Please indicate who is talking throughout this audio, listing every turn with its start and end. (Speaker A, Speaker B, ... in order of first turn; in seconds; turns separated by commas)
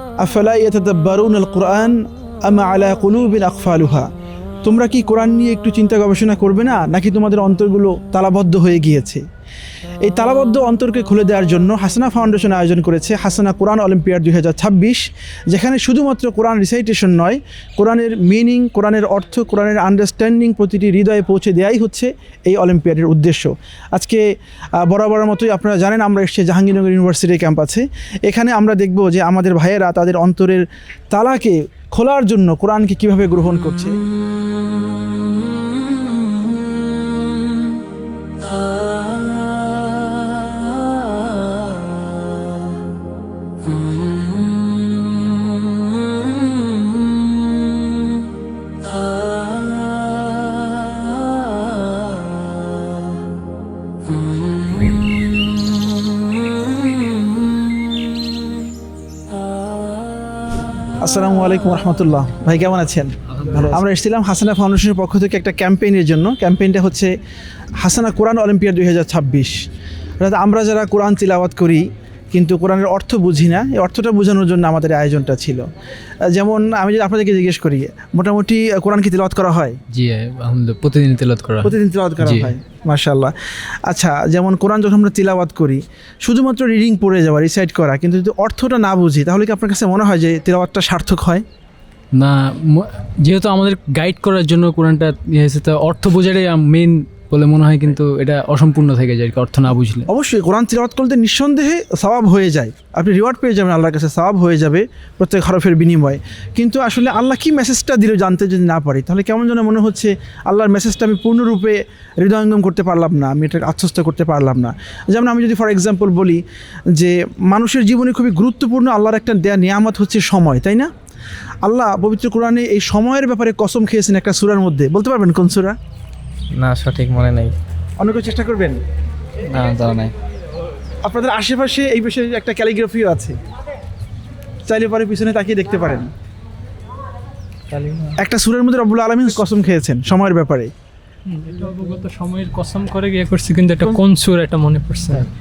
Speaker A: 0.2-4.1, Speaker A: 4.7-9.2, Speaker A: 10.0-24.2, Speaker A: 24.8-34.0, Speaker A: 61.0-67.1, Speaker A: 67.8-69.6, Speaker A: 70.2-75.7, Speaker A: 76.3-79.8, Speaker B: 79.9-82.5, Speaker A: 81.6-83.3, Speaker A: 83.9-91.4, Speaker B: 92.1-100.1, Speaker A: 100.1-116.4, Speaker A: 117.0-120.9, Speaker A: 121.6-125.8, Speaker C: 126.5-127.5, Speaker A: 128.0-128.8, Speaker C: 129.5-130.1, Speaker A: 131.1-133.4, Speaker A: 134.7-136.1, Speaker C: 137.7-138.1, Speaker A: 138.2-140.7, Speaker D: 141.3-145.2